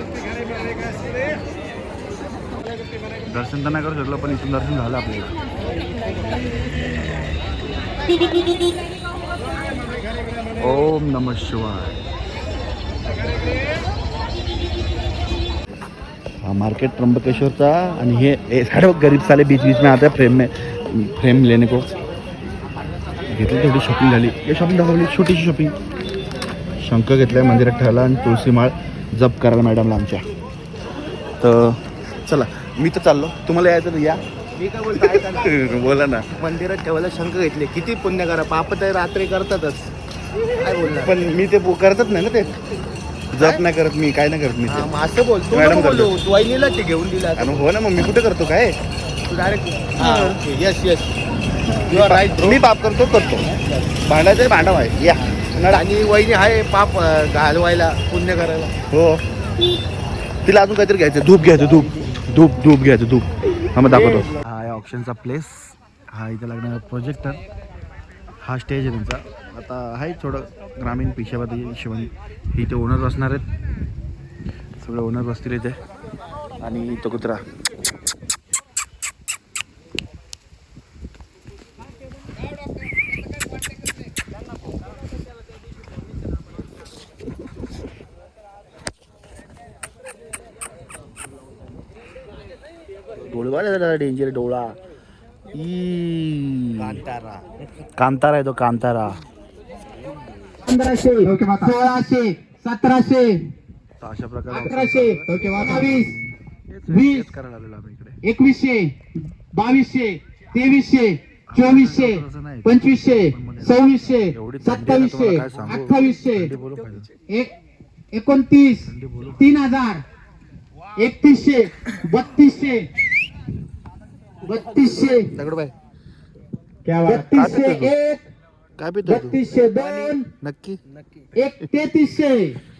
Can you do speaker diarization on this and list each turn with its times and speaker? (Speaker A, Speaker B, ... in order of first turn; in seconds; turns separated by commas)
Speaker A: 3.2-5.3, Speaker A: 10.6-12.0, Speaker A: 16.4-21.9, Speaker A: 23.3-25.7, Speaker A: 26.8-30.2, Speaker A: 31.4-34.2, Speaker B: 34.6-35.5, Speaker A: 35.2-36.3, Speaker B: 36.4-39.9, Speaker B: 40.6-41.2, Speaker A: 41.0-42.5, Speaker A: 43.3-44.8, Speaker B: 43.4-43.6, Speaker B: 44.7-47.7, Speaker A: 45.5-46.1, Speaker A: 47.4-48.8, Speaker B: 49.3-51.1, Speaker A: 50.0-50.3, Speaker B: 51.7-52.6, Speaker A: 51.9-53.4, Speaker B: 53.5-53.8, Speaker A: 54.0-55.9, Speaker B: 55.2-58.8, Speaker A: 58.9-59.2, Speaker A: 60.4-67.4, Speaker B: 63.9-64.3, Speaker A: 68.4-73.4, Speaker A: 74.8-75.8, Speaker A: 76.6-77.4, Speaker A: 93.2-94.8, Speaker A: 95.5-97.0, Speaker B: 96.8-97.4, Speaker A: 98.0-99.2, Speaker C: 100.6-103.5, Speaker A: 104.0-108.2, Speaker C: 104.5-106.1, Speaker C: 106.9-107.3, Speaker C: 108.2-109.0, Speaker C: 109.5-116.5, Speaker A: 111.5-117.1, Speaker C: 117.2-117.5, Speaker C: 118.1-120.0, Speaker A: 118.8-119.5, Speaker C: 121.0-122.9, Speaker C: 124.4-125.3, Speaker A: 125.3-125.7, Speaker C: 126.9-128.2, Speaker A: 127.0-128.0, Speaker A: 128.8-130.8, Speaker C: 129.1-130.3, Speaker C: 131.3-132.6